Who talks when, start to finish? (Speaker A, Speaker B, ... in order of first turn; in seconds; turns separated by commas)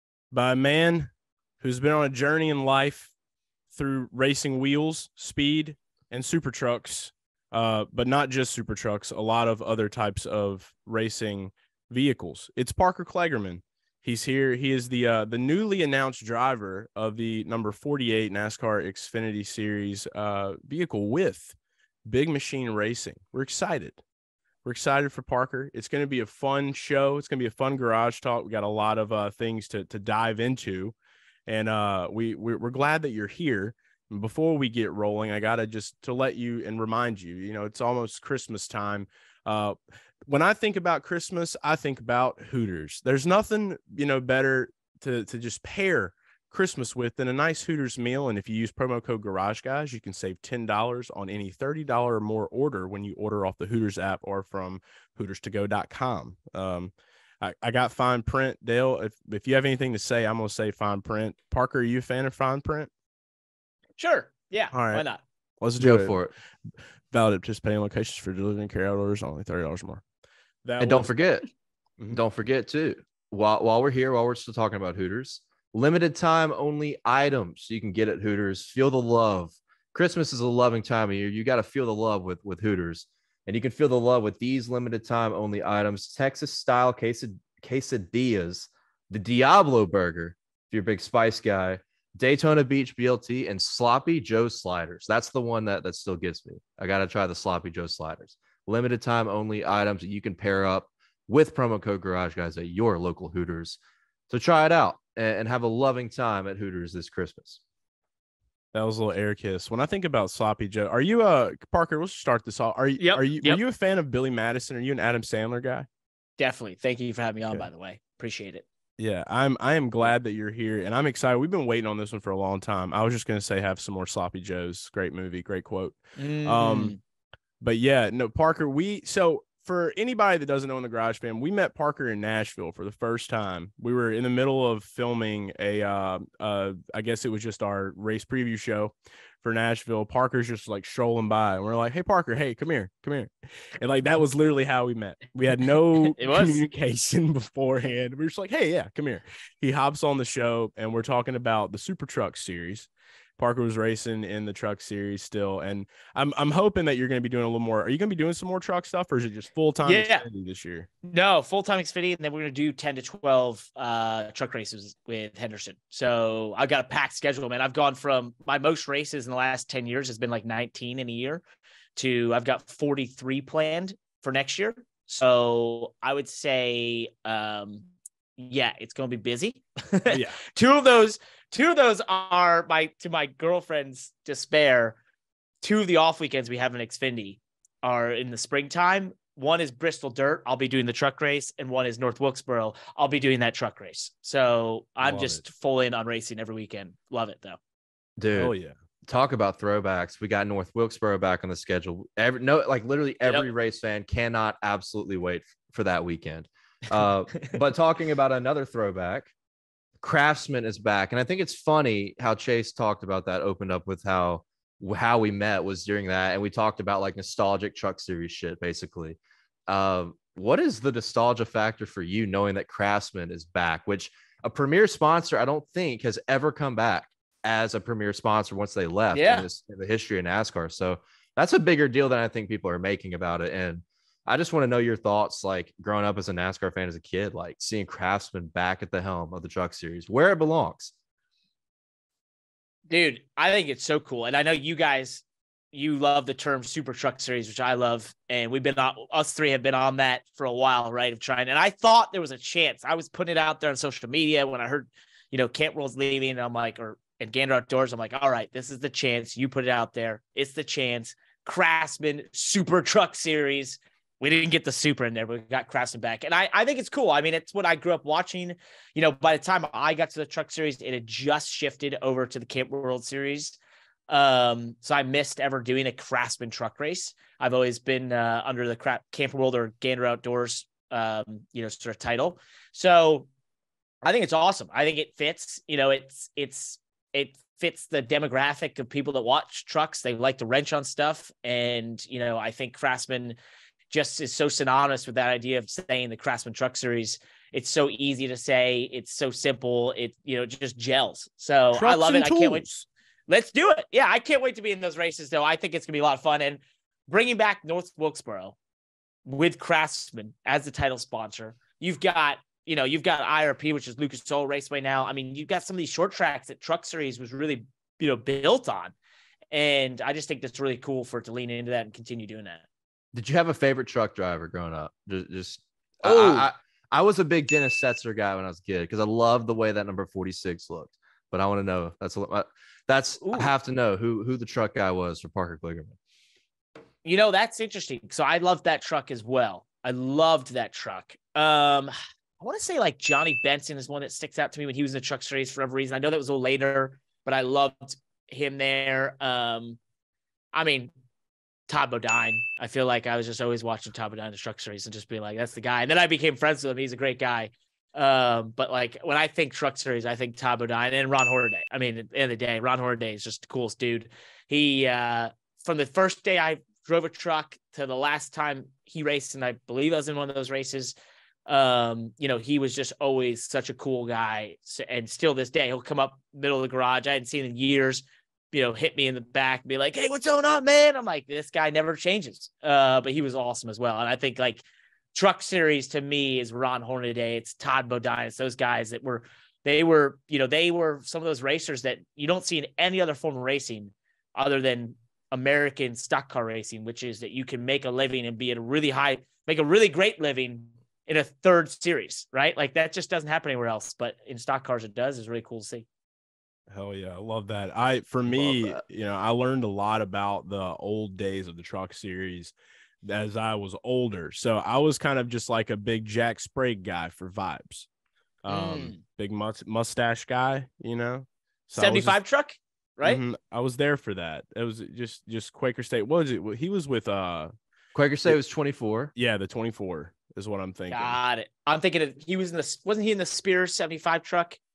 Speaker A: 0.3-3.1, Speaker A: 3.7-24.0, Speaker A: 24.6-30.9, Speaker A: 31.5-39.8, Speaker A: 40.3-62.9, Speaker B: 64.0-65.2, Speaker A: 64.7-65.0, Speaker A: 65.6-66.2, Speaker C: 65.8-66.3, Speaker A: 67.1-70.0, Speaker A: 70.6-71.1, Speaker C: 70.8-71.4, Speaker C: 72.1-103.8, Speaker C: 104.3-107.6, Speaker A: 108.7-115.9, Speaker B: 113.0-113.6, Speaker B: 116.4-118.6, Speaker A: 119.0-127.0, Speaker B: 126.2-127.0, Speaker A: 127.6-160.9, Speaker B: 146.0-146.6, Speaker B: 159.8-160.2, Speaker B: 161.0-171.4, Speaker B: 171.9-177.9, Speaker B: 178.4-185.0, Speaker A: 180.1-180.4, Speaker B: 185.6-197.6, Speaker C: 195.0-195.4, Speaker C: 198.2-198.5, Speaker A: 198.3-198.8, Speaker C: 199.1-209.3, Speaker C: 210.0-240.9, Speaker B: 229.1-229.4, Speaker B: 242.9-273.6, Speaker B: 274.1-283.3, Speaker B: 284.0-293.4, Speaker B: 293.9-302.6, Speaker A: 301.7-302.9, Speaker B: 303.3-308.5, Speaker B: 309.2-318.9, Speaker B: 319.5-322.6, Speaker C: 323.1-336.0, Speaker B: 326.0-326.5, Speaker B: 333.2-333.5, Speaker B: 337.0-349.8, Speaker B: 350.5-350.9, Speaker B: 351.7-370.9, Speaker B: 371.4-384.6, Speaker B: 385.1-405.9, Speaker A: 406.7-417.9, Speaker C: 408.3-408.8, Speaker A: 418.4-422.2, Speaker B: 418.5-419.0, Speaker B: 421.8-423.2, Speaker A: 423.0-427.5, Speaker C: 427.9-429.1, Speaker A: 429.1-431.2, Speaker B: 430.9-434.6